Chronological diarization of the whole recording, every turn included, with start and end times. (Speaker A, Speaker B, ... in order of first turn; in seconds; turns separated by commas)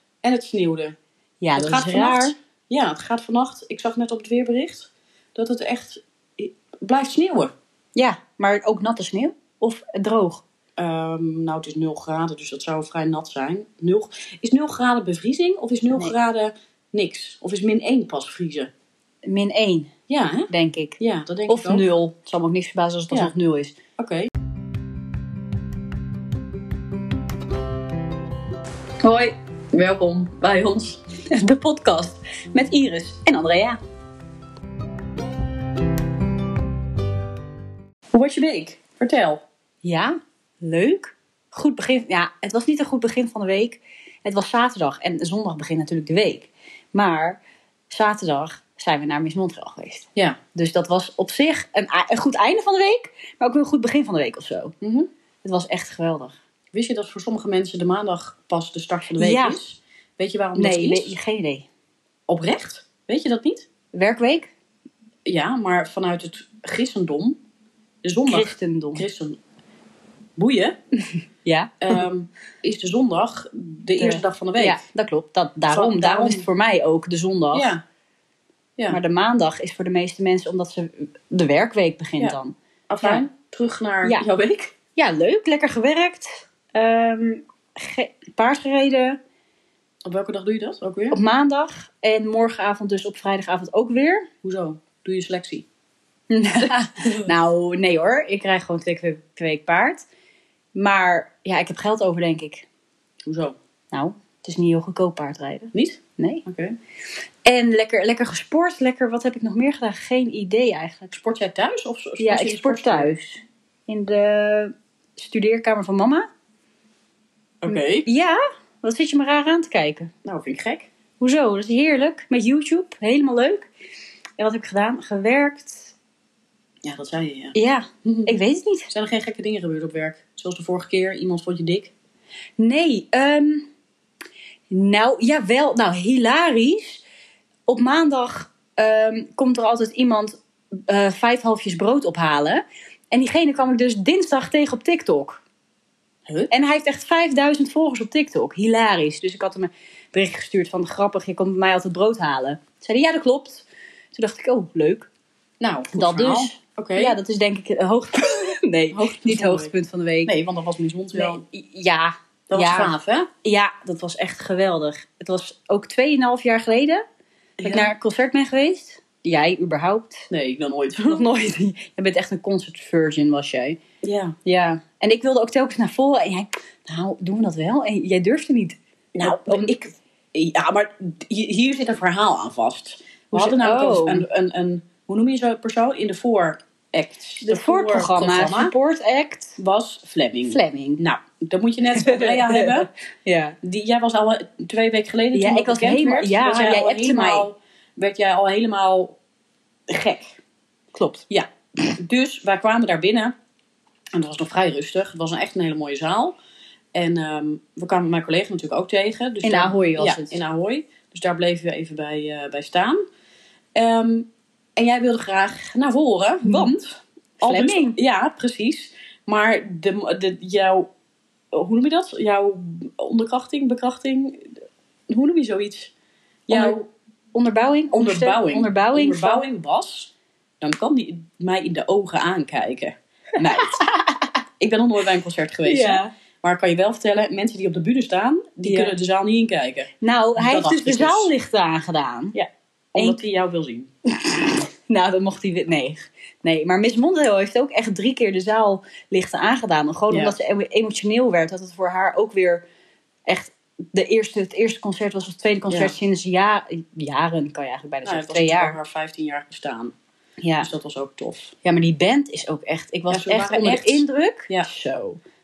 Speaker A: 0.2-0.9, Speaker B: 1.4-2.3, Speaker A: 1.5-7.5, Speaker B: 7.9-10.4, Speaker A: 10.8-18.7, Speaker B: 19.2-19.9, Speaker A: 20.1-21.9, Speaker B: 20.5-23.7, Speaker A: 24.0-24.3, Speaker B: 29.0-29.3, Speaker A: 29.7-31.0, Speaker B: 31.1-33.8, Speaker A: 38.1-39.4, Speaker B: 39.8-54.7, Speaker A: 54.8-55.1, Speaker B: 55.4-56.4, Speaker A: 56.7-61.1, Speaker B: 59.1-59.6, Speaker B: 60.5-61.6, Speaker A: 62.3-63.7, Speaker B: 63.9-64.5, Speaker A: 65.2-67.4, Speaker A: 68.0-69.4, Speaker B: 68.2-69.1, Speaker A: 70.4-70.8, Speaker B: 71.4-72.0, Speaker A: 71.8-74.8, Speaker B: 74.0-77.7, Speaker A: 75.7-76.4, Speaker A: 77.5-77.8, Speaker B: 78.9-83.2, Speaker A: 82.9-84.7, Speaker B: 85.0-89.2, Speaker A: 90.0-91.2, Speaker B: 91.1-94.2, Speaker A: 94.4-95.6, Speaker B: 96.3-100.0, Speaker A: 96.6-97.3, Speaker B: 100.7-102.7, Speaker A: 103.2-103.5, Speaker B: 103.9-106.4, Speaker A: 105.7-106.8, Speaker B: 107.4-111.1, Speaker A: 111.1-113.1, Speaker B: 112.2-116.3, Speaker A: 117.6-118.0, Speaker B: 117.7-120.1, Speaker A: 120.2-120.9, Speaker B: 121.2-123.7, Speaker B: 124.4-125.9, Speaker A: 126.8-131.9, Speaker B: 127.5-128.9, Speaker B: 132.6-133.7, Speaker B: 134.7-137.0, Speaker B: 137.7-140.4, Speaker B: 140.9-145.4, Speaker B: 146.5-155.1, Speaker A: 155.6-157.2, Speaker B: 155.9-160.3, Speaker A: 158.9-159.7, Speaker A: 160.2-161.4, Speaker B: 161.1-167.0, Speaker A: 162.5-163.3, Speaker A: 167.6-167.9, Speaker B: 167.6-170.2, Speaker A: 170.3-171.3, Speaker B: 171.0-173.8, Speaker A: 174.0-174.3, Speaker B: 174.4-179.7, Speaker A: 179.1-188.7, Speaker B: 183.3-184.2, Speaker B: 187.4-189.6, Speaker A: 189.6-192.9, Speaker B: 190.5-191.0, Speaker B: 192.0-193.6, Speaker A: 193.6-199.2, Speaker B: 195.3-197.5, Speaker A: 199.9-200.4, Speaker B: 200.9-201.2, Speaker A: 201.3-203.3, Speaker A: 204.1-206.3, Speaker A: 206.9-213.0, Speaker B: 209.4-210.4, Speaker A: 213.7-220.9, Speaker B: 216.4-216.7, Speaker B: 217.4-218.0, Speaker A: 221.5-224.5, Speaker A: 225.1-225.9, Speaker B: 226.5-229.4, Speaker A: 226.5-226.8, Speaker A: 227.9-233.8, Speaker B: 233.5-234.3, Speaker A: 234.6-241.3, Speaker B: 235.6-236.1, Speaker B: 238.6-238.9, Speaker B: 240.0-242.4, Speaker A: 242.3-243.9, Speaker B: 242.9-243.2, Speaker B: 244.2-252.6, Speaker A: 250.1-250.3, Speaker B: 253.2-258.8, Speaker A: 255.7-255.9, Speaker A: 258.0-259.9, Speaker B: 260.4-260.7, Speaker A: 260.6-261.5, Speaker B: 261.6-265.2, Speaker A: 263.1-264.7